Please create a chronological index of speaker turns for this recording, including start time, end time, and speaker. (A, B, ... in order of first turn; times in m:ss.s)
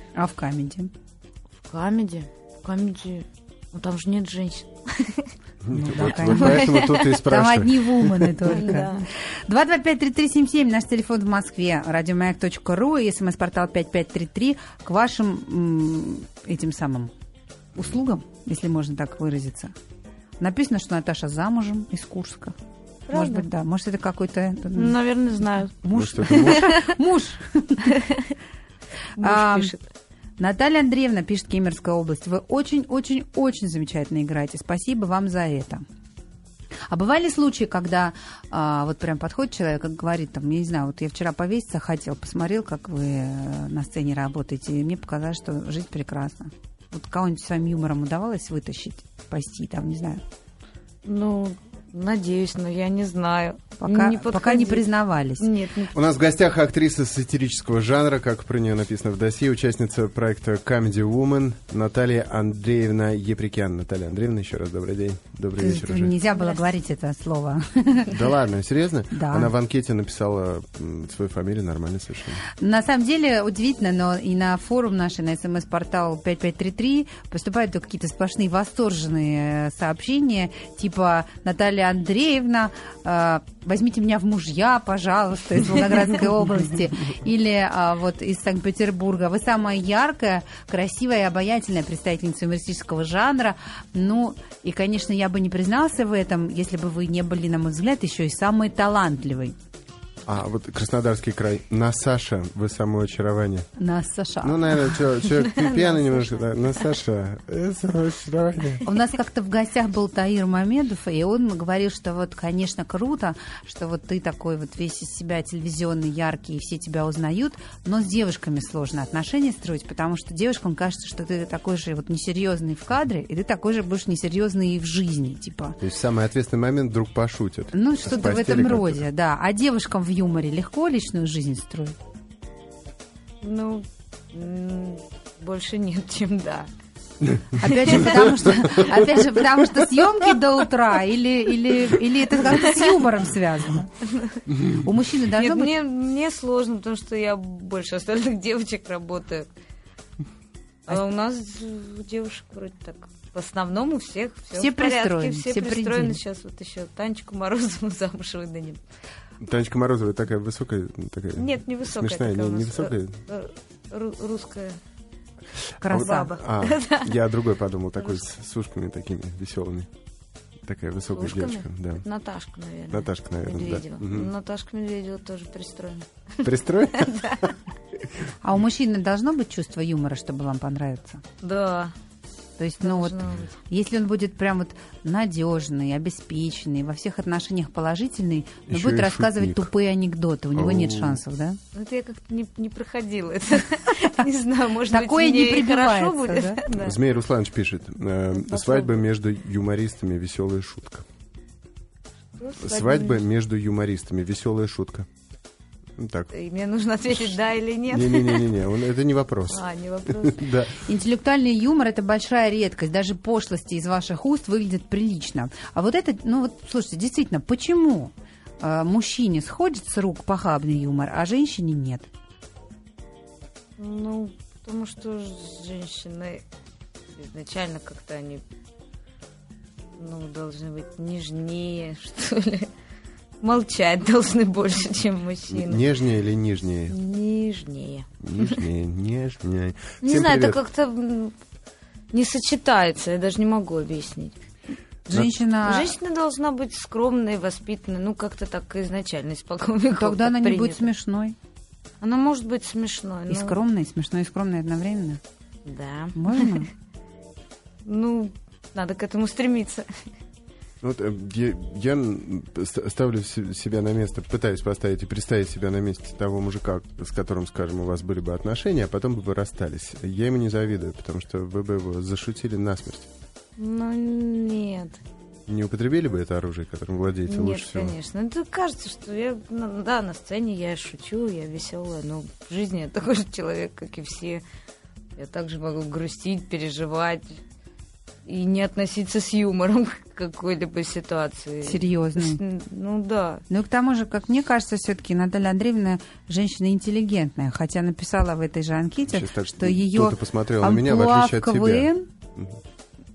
0:00.2-0:00.9 A
0:01.6-0:05.3 B
0:05.6-0:08.5 C
0:05.7-0:17.1 A
0:06.2-0:07.2 B
0:08.4-0:09.1 B
0:17.8-0:19.7 A
0:20.4-0:22.6 A
0:23.1-0:23.4 B
0:23.1-0:25.0 A
0:24.7-0:26.9 B
0:25.8-0:28.0 A
0:25.9-0:26.7 C
0:27.8-0:28.3 B
0:29.2-0:29.7 A
0:29.2-0:29.8 B
0:30.4-0:35.8 A
0:36.9-0:50.2 A
0:51.0-0:54.9 B
0:53.8-0:55.5 A
0:55.4-0:55.9 B
0:55.9-1:06.2 C
1:05.6-1:08.2 A
1:06.4-1:06.6 B
1:08.1-1:12.4 C
1:09.1-1:09.5 A
1:12.5-1:39.5 A
1:40.2-1:43.7 C
1:43.8-1:44.9 A
1:44.4-1:48.8 C
1:45.3-1:46.5 B
1:48.8-2:05.8 A
2:05.8-2:09.0 C
2:07.7-2:12.0 A
2:13.4-2:16.7 B
2:17.6-2:23.9 A
2:17.7-2:18.2 B
2:22.5-2:23.0 B
2:24.0-2:24.4 B
2:24.6-2:25.7 A
2:25.3-2:29.5 B
2:30.8-2:38.8 B
2:34.5-2:36.2 A
2:39.4-2:43.2 C
2:41.4-2:44.8 B
2:45.8-2:46.3 A
2:45.8-2:49.9 C
2:45.9-2:47.2 B
2:50.6-2:52.0 C
2:51.1-2:57.4 B
2:52.9-2:54.3 C
2:56.4-2:58.1 C
2:58.4-3:01.2 A
3:01.4-3:01.9 B
3:02.6-3:11.6 A
3:02.8-3:03.5 B
3:08.7-3:09.7 C
3:10.5-3:11.2 C
3:11.7-3:17.0 B
3:14.9-3:16.6 A
3:16.7-3:21.0 C
3:18.4-3:19.0 B
3:22.4-3:23.2 B
3:22.6-3:25.1 C
3:26.0-3:26.3 C
3:26.3-3:28.5 B
3:27.9-3:30.8 C
3:29.5-3:30.4 B
3:30.8-3:42.1 A
3:43.8-3:46.4 B
3:47.2-3:48.4 B
3:50.0-3:52.7 B
3:53.4-3:55.9 B
3:55.5-3:57.0 C
3:56.9-3:58.6 B
3:58.2-4:00.6 C
4:00.0-4:01.4 B
4:02.1-4:04.4 B
4:05.1-4:06.0 A
4:05.6-4:10.9 B
4:10.0-4:11.4 A
4:12.0-4:13.6 B
4:13.3-4:15.2 A
4:15.6-4:16.7 B
4:16.2-4:16.7 A
4:17.8-4:20.1 B
4:20.8-4:33.1 C
4:33.6-4:35.0 B
4:35.5-4:38.0 C
4:37.3-4:44.4 B
4:45.2-4:47.4 B
4:48.2-4:53.4 B
4:51.6-4:52.4 A
4:53.5-5:02.1 A
4:59.1-5:02.6 C